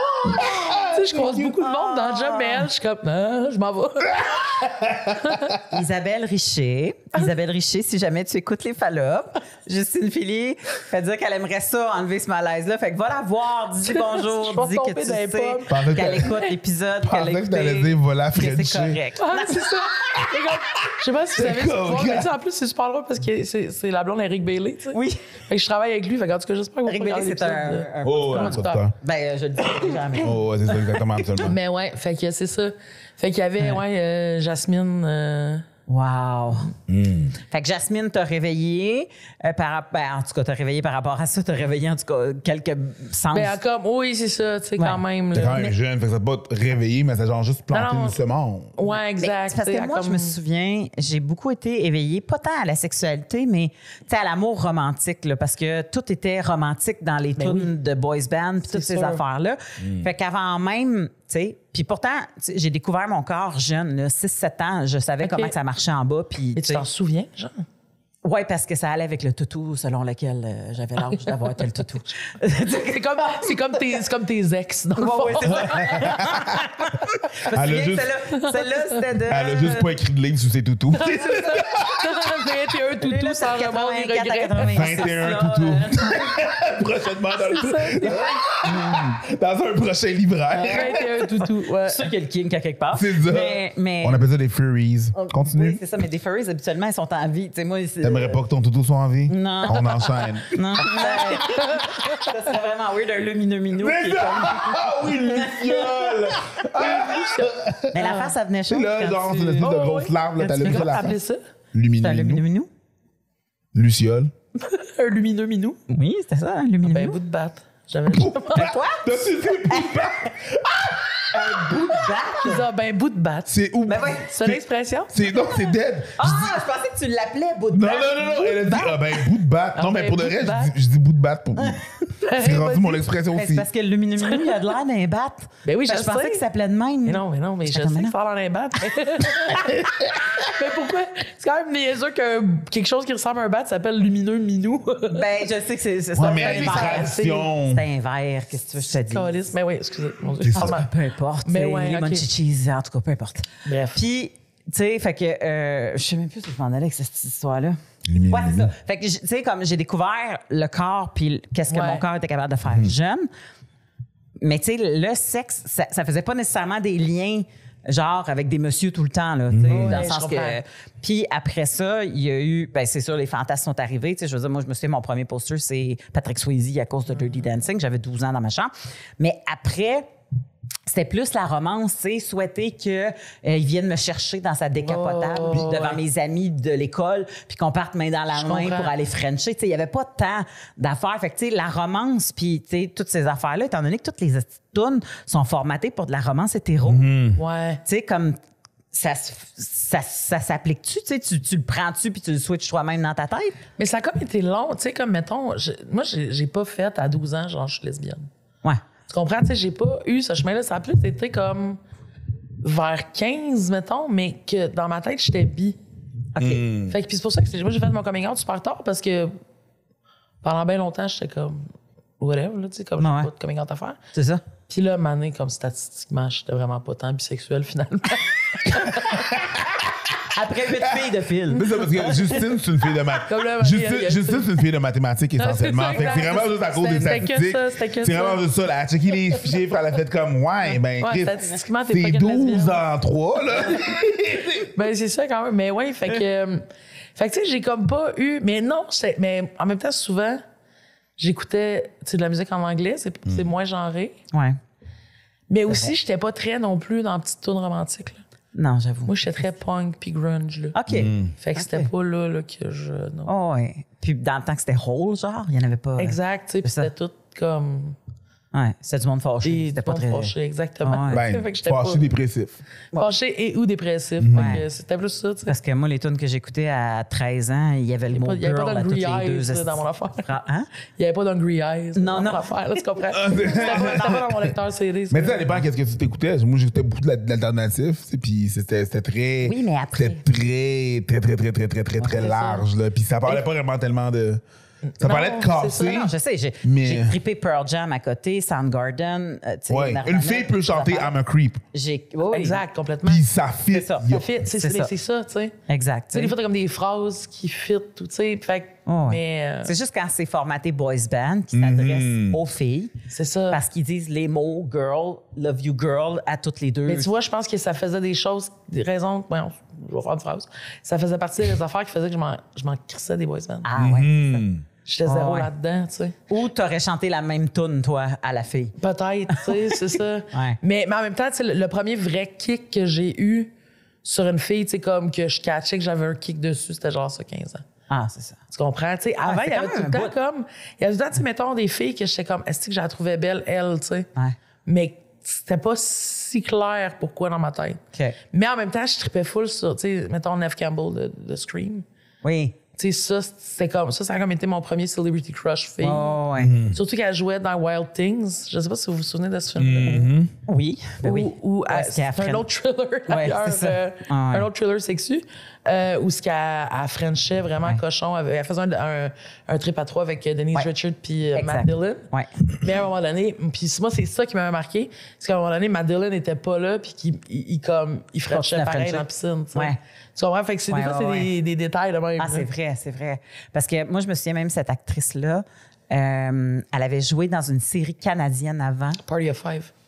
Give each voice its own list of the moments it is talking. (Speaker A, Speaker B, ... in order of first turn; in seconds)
Speaker A: 0.2-1.6, 4.1-5.6, 15.7-16.4, 17.0-19.0, 20.1-22.3, 28.0-28.9, 30.2-31.6, 36.9-37.4, 45.3-48.8, 59.8-60.1, 75.5-76.6, 77.5-78.1, 79.3-82.4, 84.6-91.2, 92.9-95.8, 98.0-102.1, 103.8-108.0, 108.7-111.2, 111.7-112.4, 113.7-114.3, 118.1-121.9, 123.5-126.6, 127.7-133.7, 146.2-147.9, 150.4-150.8, 158.1-158.7, 169.5-170.1, 196.8-197.4, 216.4-216.9, 229.1-229.9, 230.8-244.7, 260.9-261.3, 271.1-272.6, 274.2-274.6, 283.1-284.5, 285.1-294.4, 295.0-297.2, 299.7-301.6, 303.1-304.3, 311.5-312.4, 323.8-324.6, 356.4-356.8, 359.6-360.3
Speaker B: 0.3-4.4, 5.2-5.5, 13.8-16.4, 19.2-28.8, 31.4-35.7, 43.3-45.7, 47.7-48.2, 48.8-50.4, 57.4-57.7, 58.7-59.2, 65.2-65.5, 66.6-67.7, 72.7-76.2, 78.4-78.9, 80.9-85.1, 87.4-88.4, 90.5-92.1, 101.1-101.9, 106.8-108.3, 109.5-111.4, 114.6-115.8, 116.8-118.8, 122.4-123.6, 124.2-125.2, 128.2-130.7, 132.2-133.0, 134.2-134.6, 135.7-136.4, 137.1-145.4, 146.3-147.5, 148.9-150.9, 151.4-152.2, 153.7-154.0, 161.7-162.0, 169.7-170.6, 184.8-186.0, 188.3-188.9, 197.4-197.8, 203.8-208.3, 209.1-211.8, 212.6-215.8, 216.9-219.3, 220.4-221.7, 222.2-224.0, 224.7-229.3, 233.2-234.6, 235.4-238.4, 241.0-242.8, 244.6-250.4, 251.2-254.2, 255.5-258.2, 259.1-260.8, 261.3-263.3, 266.0-268.0, 269.4-272.1, 273.0-275.5, 278.1-280.3, 281.0-285.6, 292.0-292.6, 295.0-296.0, 302.3-303.2, 304.1-305.6, 306.1-309.7, 313.1-313.6, 316.9-323.7, 324.9-326.2, 328.8-333.5, 334.0-337.6, 338.5-344.1, 344.7-351.9, 352.8-356.1, 356.7-360.1, 361.0-382.5, 389.0-389.7
Speaker C: 1.6-2.7, 5.7-19.8, 24.9-25.2, 26.9-30.9, 35.9-36.7, 37.5-43.6, 48.9-66.8, 68.2-73.8, 75.0-79.9, 83.0-86.3, 91.8-94.2, 95.1-98.4, 99.3-106.2, 107.9-109.7, 110.5-111.0, 112.0-112.7, 115.9-117.2, 118.5-120.1, 121.3-122.7, 123.9-124.3, 126.2-128.4, 133.3-138.1, 145.1-149.3, 150.6-163.3, 164.4-180.1, 180.9-197.1, 197.8-198.4, 198.9-203.6, 216.3-216.7, 223.0-223.3, 224.1-224.4, 230.3-232.4, 254.3-254.6, 258.6-259.1, 260.8-261.9, 263.3-266.9, 268.5-270.3, 270.8-271.2, 274.3-274.6, 275.5-280.7, 282.0-282.5, 283.4-284.2, 289.4-290.2, 295.8-301.1, 301.7-302.6, 303.7-304.9, 305.7-306.3, 308.9-312.9, 313.5-317.1, 323.6-324.4, 325.1-325.5, 326.3-328.8, 329.3-330.6, 337.9-338.4, 339.2-340.1, 352.2-352.6, 355.8-356.6, 360.5-362.4, 363.1-364.5, 371.3-372.3, 378.3-379.8, 380.7-381.3, 382.2-389.0